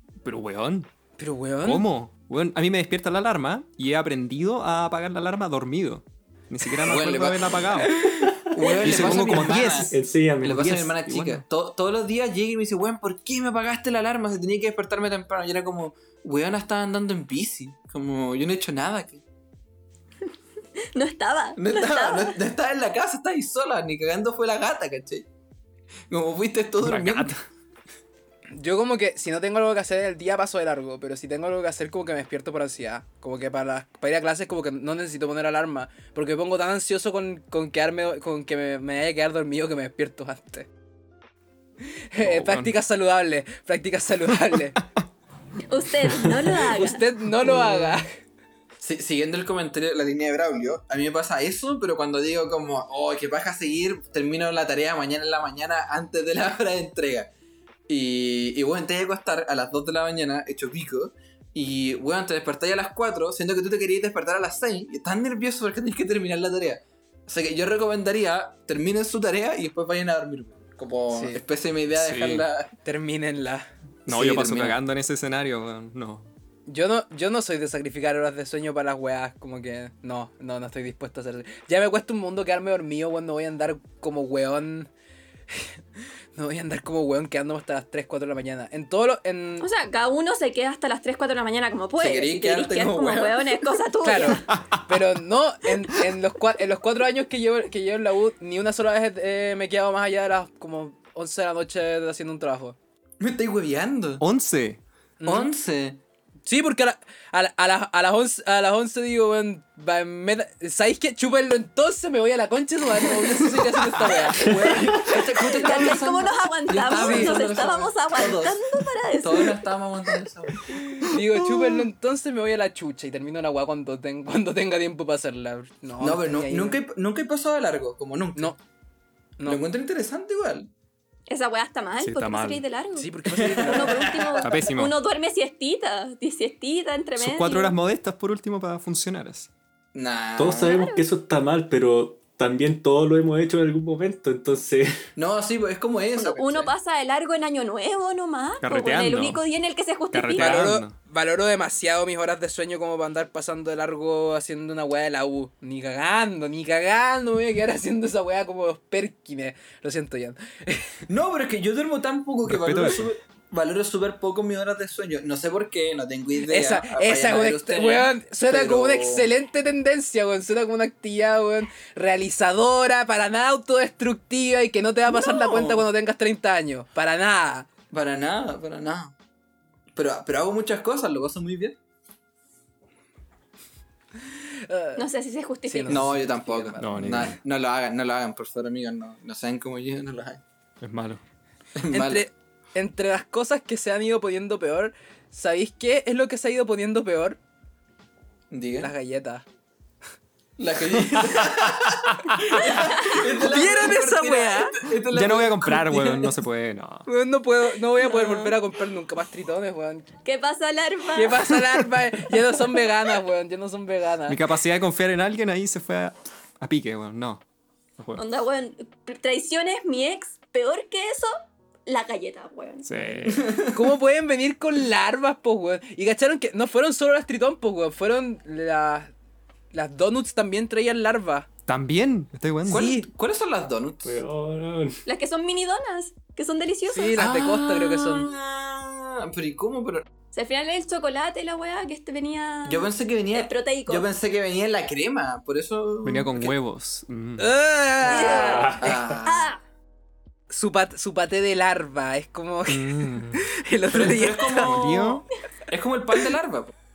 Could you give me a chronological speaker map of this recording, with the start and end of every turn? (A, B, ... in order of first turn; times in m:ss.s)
0:00.2-0:00.9 A
0:01.2-0:01.8 B
0:01.6-0:08.1 A
0:06.8-0:19.2 C
0:08.0-0:10.8 D
0:08.8-0:11.4 A
0:20.9-0:22.3 E
0:21.6-0:25.3 C
0:26.1-0:27.3 C
0:26.8-0:27.4 A
0:28.5-0:40.7 B
0:42.1-0:44.8 B
0:42.2-0:42.7 A
0:45.7-0:47.0 E
0:46.6-0:48.1 B
0:48.8-0:57.3 C
0:57.9-1:12.7 C
1:11.1-1:11.4 B
1:11.9-1:12.5 A
1:12.8-1:13.7 B
1:14.1-1:14.8 C
1:14.1-1:16.3 A
1:16.7-1:24.9 B
1:25.5-1:25.8 B
1:26.4-1:29.7 B
1:29.6-1:34.4 E
1:32.0-1:33.6 C
1:34.0-1:42.8 B
1:34.5-1:35.0 A
1:43.2-1:44.2 C
1:44.2-1:44.8 A
1:45.2-1:45.5 B
1:45.2-1:46.0 C
1:46.5-1:54.9 B
1:53.0-1:58.6 C
1:54.5-1:54.8 D
1:55.4-1:59.7 E
1:56.9-1:57.4 B
1:59.2-2:00.8 C
2:01.0-2:06.8 B
2:01.1-2:01.8 A
2:06.0-2:08.6 C
2:09.5-2:10.7 C
2:11.3-2:17.8 E
2:12.0-2:12.6 A
2:13.0-2:14.1 B
2:13.3-2:14.5 C
2:14.4-2:15.0 A
2:17.2-2:19.5 A
2:19.9-2:20.8 C
2:20.4-2:24.9 D
2:20.6-2:21.0 E
2:25.2-2:26.7 C
2:26.2-2:30.7 E
2:28.6-2:29.4 A
2:30.1-2:31.0 A
2:30.3-2:41.0 B
2:41.1-2:49.3 C
2:42.5-2:43.1 A
2:46.4-2:57.7 B
2:55.1-2:55.9 C
2:57.9-2:59.1 C
2:59.9-3:01.8 C
3:04.7-3:05.0 B
3:05.0-3:06.1 E
3:05.7-3:07.3 B
3:05.9-3:10.4 C
3:06.8-3:07.4 A
3:10.8-3:11.2 A
3:11.8-3:12.2 C
3:11.9-3:17.4 B
3:18.5-3:18.9 C
3:18.8-3:19.4 B
3:20.6-3:26.3 C
3:21.2-3:22.6 A
3:22.9-3:23.2 E
3:23.0-3:24.8 B
3:25.1-3:27.1 A
3:27.1-3:30.1 B
3:28.0-3:28.6 E
3:30.2-3:31.6 E
3:31.1-3:34.4 B
3:34.3-3:37.4 A
3:38.0-3:38.2 A
3:38.2-3:41.3 E
3:41.9-3:42.9 E
3:42.8-3:43.5 A
3:43.3-3:43.8 C
3:43.7-3:49.1 B
3:49.7-3:51.5 B
3:51.7-3:52.9 A
3:52.7-3:53.1 B
3:52.7-3:54.2 C
3:54.0-3:55.0 D
3:55.1-3:57.2 E
3:56.9-3:58.3 B
3:57.2-4:00.0 C
4:00.3-4:04.1 E
4:02.7-4:06.5 C
4:06.0-4:07.5 A
4:07.4-4:08.8 B
4:08.0-4:09.6 E
4:08.1-4:09.5 C
4:08.4-4:09.0 D
4:10.5-4:14.9 B
4:12.7-4:13.4 A
4:13.9-4:16.7 C
4:14.6-4:15.2 A